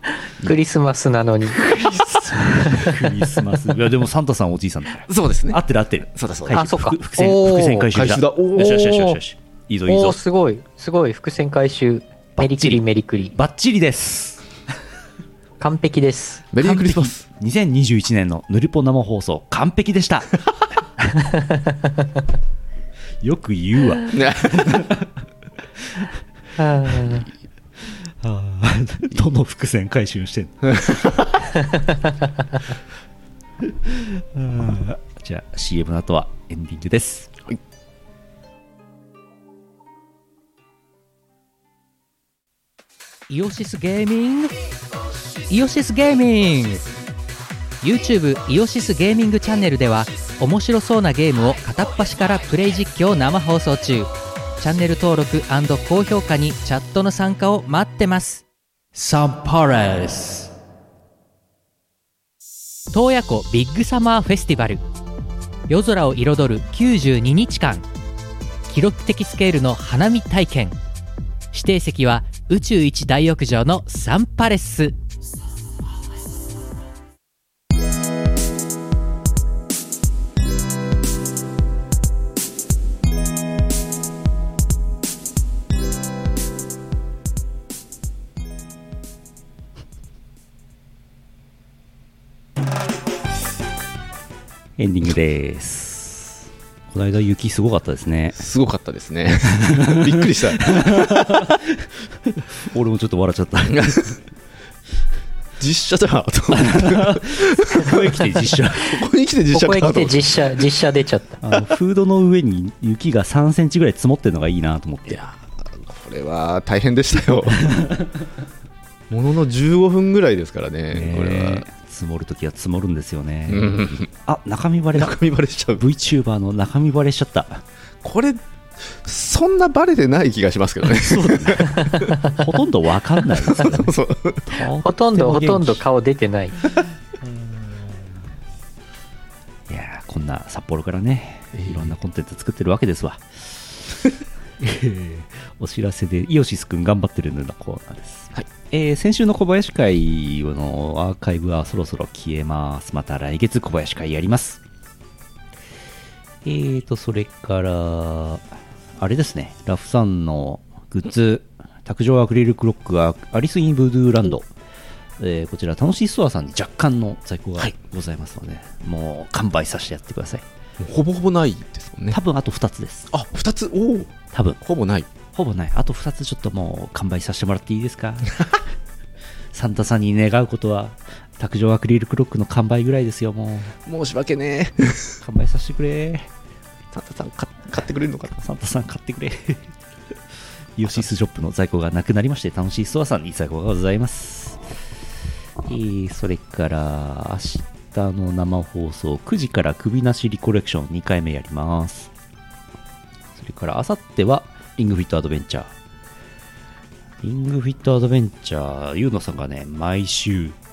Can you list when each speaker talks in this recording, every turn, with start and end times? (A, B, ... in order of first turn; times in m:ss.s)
0:00.2-0:01.6 A
0:01.6-0:10.2 B
0:05.1-0:05.6 C
0:06.1-0:06.7 C
0:06.5-0:07.9 A
0:07.8-0:09.0 C
0:08.6-0:09.2 A
0:09.9-0:13.3 A
0:12.4-0:12.8 B
0:13.3-0:14.4 B
0:15.6-0:16.5 A
0:16.5-0:17.2 C
0:16.6-0:20.4 B
0:21.2-0:21.6 A
0:23.2-0:25.1 B
0:24.1-0:24.8 C
0:25.8-0:26.1 B
0:26.6-0:27.3 A
0:27.9-0:31.2 B
0:33.8-0:37.3 B
0:43.3-0:44.5 D
0:45.5-0:46.8 D
0:47.8-1:00.5 D
1:02.9-1:04.8 D
1:05.7-1:07.9 D
1:08.7-1:10.8 D
1:11.5-1:15.0 D
1:34.8-1:38.4 B
1:38.3-1:41.4 C
1:39.7-1:44.1 B
1:43.7-1:44.2 C
1:45.6-1:50.6 C
1:46.5-1:49.0 B
1:49.5-1:51.4 A
1:51.4-1:55.2 B
1:55.1-1:57.7 C
1:59.1-2:01.7 C
2:00.9-2:05.2 B
2:03.5-2:04.1 C
2:04.9-2:05.8 C
2:05.8-2:07.6 B
2:08.0-2:12.2 C
2:10.9-2:15.8 B
2:13.3-2:14.5 C
2:14.8-2:16.6 A
2:17.2-2:18.0 B
2:19.7-2:23.8 B
2:21.5-2:21.9 C
2:24.6-2:34.6 B
2:36.4-2:38.4 B
2:39.0-2:44.5 B
2:45.2-2:50.4 B
2:50.8-2:52.2 C
2:52.1-2:53.1 B
2:53.1-2:55.1 C
2:54.3-2:54.6 B
2:55.3-2:58.5 B
2:59.5-3:03.7 B
3:03.8-3:05.2 C
3:05.2-3:06.3 B
3:06.9-3:08.4 C
3:08.4-3:09.7 B
3:10.8-3:14.6 B
3:15.6-3:22.1 B
3:23.4-3:25.7 B
3:27.2-3:30.6 B